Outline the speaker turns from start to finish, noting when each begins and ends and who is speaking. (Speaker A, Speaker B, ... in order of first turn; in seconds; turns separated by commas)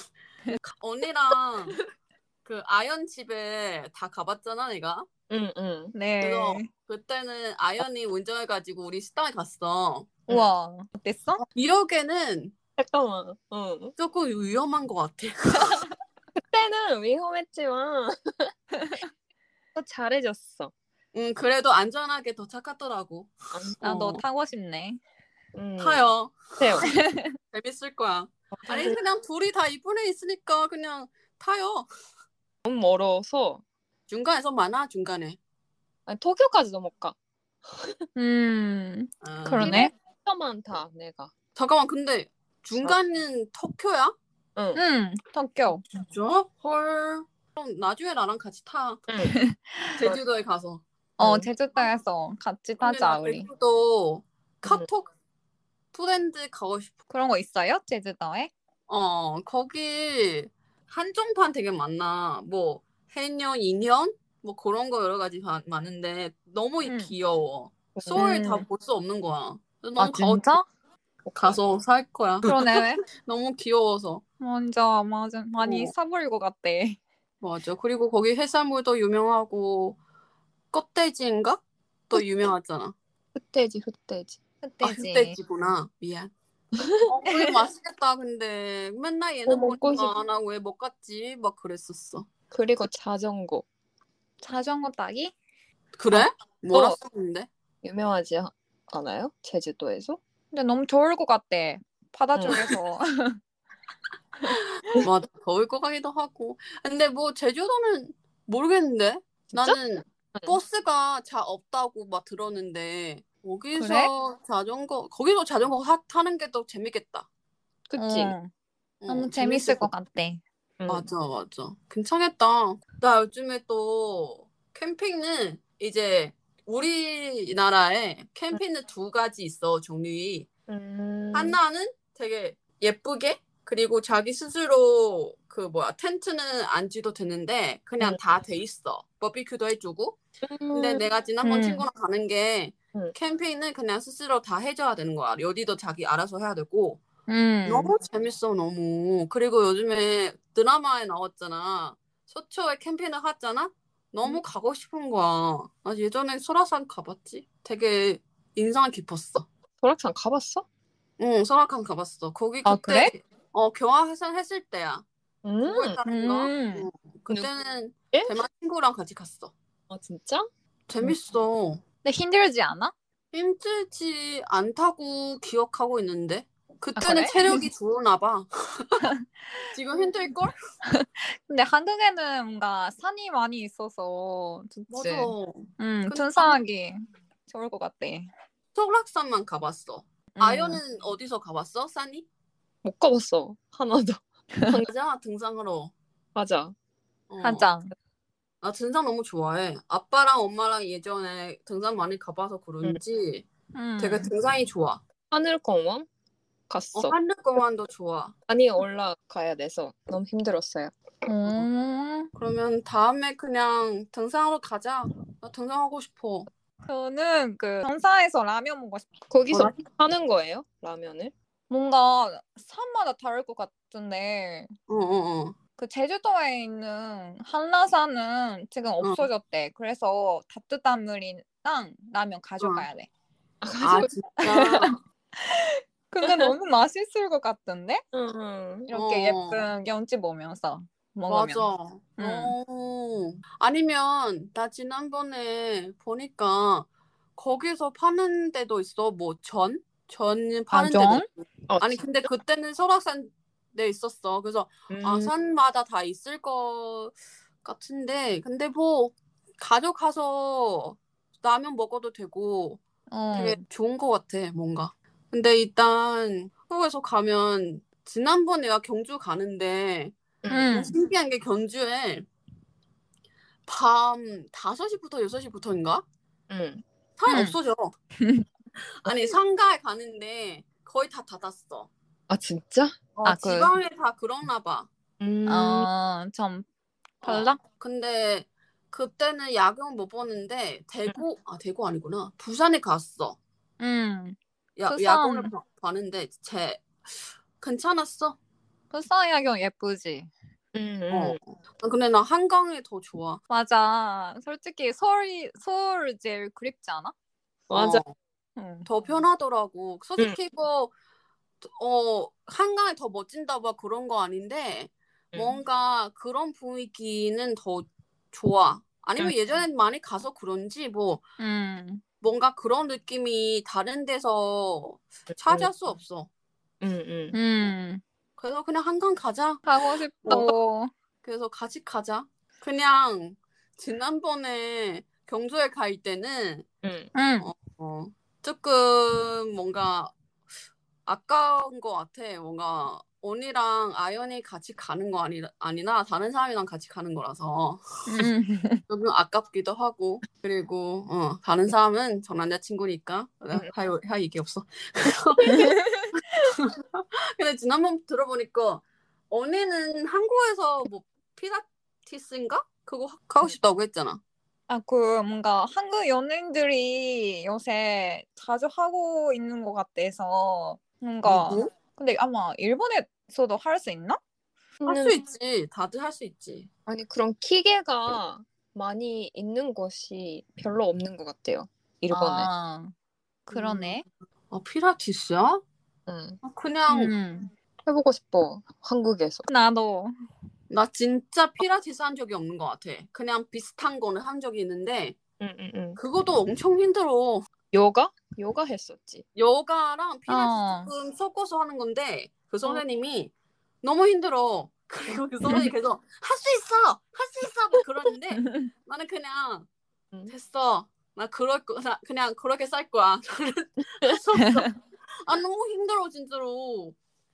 Speaker A: 0.6-1.8, Speaker A: 2.5-5.1, Speaker B: 5.3-5.9, Speaker C: 5.9-6.7, Speaker A: 6.2-10.2, Speaker C: 10.3-11.4, Speaker A: 11.4-12.6, Speaker B: 12.8-13.9, Speaker A: 14.0-15.8, Speaker B: 16.4-18.5, Speaker B: 19.8-20.7, Speaker A: 21.1-23.7, Speaker B: 23.5-24.2, Speaker C: 23.8-25.0, Speaker B: 25.6-26.9, Speaker A: 25.8-26.9, Speaker C: 26.9-27.3, Speaker A: 27.5-31.9, Speaker B: 28.6-29.0, Speaker B: 32.6-33.6, Speaker A: 34.1-35.4, Speaker B: 36.1-38.1, Speaker C: 38.2-39.9, Speaker A: 39.2-39.9, Speaker B: 39.6-41.3, Speaker A: 41.6-44.1, Speaker B: 44.6-44.8, Speaker C: 44.8-45.8, Speaker A: 45.9-49.0, Speaker B: 49.1-49.4, Speaker C: 49.2-50.1, Speaker A: 50.0-50.8, Speaker B: 51.2-51.5, Speaker C: 51.2-53.5, Speaker A: 52.8-55.1, Speaker A: 55.9-57.0, Speaker C: 57.1-58.5, Speaker A: 58.9-70.5, Speaker C: 66.8-67.1, Speaker B: 68.0-68.4, Speaker C: 68.2-68.7, Speaker C: 70.0-70.7, Speaker B: 71.2-71.6, Speaker A: 71.4-72.6, Speaker C: 72.4-73.0, Speaker A: 73.2-74.2, Speaker C: 74.4-77.0, Speaker A: 75.6-75.9, Speaker A: 77.4-80.0, Speaker A: 80.7-83.0, Speaker B: 83.3-84.4, Speaker C: 84.6-85.4, Speaker A: 84.8-86.3, Speaker A: 87.0-92.3, Speaker B: 89.5-90.2, Speaker B: 92.5-93.7, Speaker C: 94.4-95.3, Speaker A: 96.0-97.5, Speaker B: 96.1-97.0, Speaker B: 97.8-100.2, Speaker C: 100.5-103.4, Speaker B: 102.3-102.7, Speaker A: 105.0-117.3, Speaker B: 109.5-109.8, Speaker C: 113.8-114.1, Speaker B: 117.9-118.3, Speaker C: 118.0-118.5, Speaker A: 119.0-119.9, Speaker C: 119.1-120.4, Speaker B: 120.8-121.1, Speaker A: 120.9-130.5, Speaker B: 130.7-131.6, Speaker A: 131.3-140.2, Speaker B: 140.4-141.1, Speaker A: 140.7-147.0, Speaker C: 141.4-141.8, Speaker C: 147.3-147.9, Speaker A: 147.7-159.5, Speaker B: 159.8-160.7, Speaker A: 161.2-165.1, Speaker C: 162.7-163.1, Speaker B: 165.4-166.0, Speaker A: 165.6-169.5, Speaker C: 166.1-166.9, Speaker B: 168.1-168.4, Speaker B: 169.9-170.5, Speaker A: 170.9-171.8, Speaker C: 172.0-172.9, Speaker A: 173.3-178.9, Speaker C: 176.9-177.7, Speaker A: 179.7-180.6, Speaker C: 180.8-188.3, Speaker A: 184.9-186.6, Speaker A: 188.8-192.3, Speaker C: 190.3-190.8, Speaker B: 192.8-194.9, Speaker A: 194.8-195.9, Speaker B: 196.3-196.8, Speaker A: 197.3-197.7, Speaker C: 197.4-197.9, Speaker A: 198.6-203.4, Speaker C: 203.7-204.3, Speaker A: 204.0-205.0, Speaker B: 205.3-206.1, Speaker B: 206.7-207.2, Speaker A: 206.9-208.3, Speaker B: 208.5-210.9, Speaker C: 211.2-212.3, Speaker A: 212.4-216.5, Speaker C: 216.9-219.1, Speaker B: 219.3-221.3, Speaker C: 221.7-224.7, Speaker A: 224.9-225.6, Speaker C: 225.8-233.1, Speaker A: 229.0-229.3, Speaker A: 232.6-232.9, Speaker B: 233.6-234.1, Speaker A: 233.8-235.0, Speaker C: 234.4-238.0, Speaker B: 236.2-236.5, Speaker B: 238.1-238.9, Speaker C: 238.9-241.7, Speaker A: 238.9-239.7, Speaker A: 241.3-262.8, Speaker C: 242.2-242.5, Speaker C: 250.7-251.3, Speaker B: 251.7-252.1, Speaker B: 254.9-255.3, Speaker C: 263.1-263.6, Speaker A: 263.3-270.2, Speaker B: 270.4-270.7, Speaker C: 270.5-271.0, Speaker A: 270.7-272.3, Speaker A: 273.7-276.0, Speaker B: 276.5-276.8, Speaker A: 277.2-277.9, Speaker C: 277.3-277.6, Speaker C: 278.2-278.5, Speaker A: 279.0-281.9, Speaker B: 282.3-283.0, Speaker A: 283.2-284.9, Speaker C: 283.2-283.8, Speaker B: 285.2-285.9, Speaker C: 285.5-286.7, Speaker A: 287.2-293.4, Speaker C: 287.2-287.6, Speaker C: 293.8-295.5, Speaker A: 294.8-297.0, Speaker A: 297.6-298.4, Speaker C: 298.9-300.3, Speaker B: 300.7-301.4, Speaker A: 301.1-303.4, Speaker C: 303.5-307.1, Speaker A: 307.7-308.1, Speaker B: 307.7-308.0, Speaker C: 308.6-308.9, Speaker A: 308.9-310.9, Speaker A: 311.6-321.2, Speaker B: 315.3-315.6, Speaker C: 321.4-322.0, Speaker A: 322.2-326.3, Speaker B: 325.3-325.7, Speaker B: 326.8-327.4, Speaker C: 327.3-328.0, Speaker A: 328.4-329.7, Speaker C: 329.6-330.9, Speaker A: 330.2-330.5, Speaker A: 331.2-336.7, Speaker B: 336.8-337.1, Speaker C: 337.1-337.5, Speaker A: 337.4-340.1, Speaker A: 341.1-348.3, Speaker C: 348.1-348.8, Speaker A: 348.9-355.8, Speaker C: 355.6-356.2, Speaker A: 356.3-356.6, Speaker A: 357.4-364.2, Speaker C: 364.7-374.2, Speaker A: 371.2-371.7, Speaker B: 374.8-375.2, Speaker A: 374.9-376.7, Speaker B: 376.9-382.5, Speaker C: 382.1-382.9, Speaker C: 383.5-384.1, Speaker B: 383.5-384.0, Speaker A: 384.5-385.6, Speaker B: 386.1-386.4, Speaker A: 386.4-387.1, Speaker C: 386.9-387.5, Speaker B: 387.9-389.5, Speaker C: 389.5-390.1, Speaker A: 390.7-395.2, Speaker B: 395.4-396.0, Speaker A: 396.0-397.5, Speaker B: 397.7-399.2, Speaker A: 399.4-403.3, Speaker C: 400.3-400.9, Speaker A: 403.8-409.7, Speaker C: 408.3-408.7, Speaker A: 410.3-414.7, Speaker A: 415.3-417.0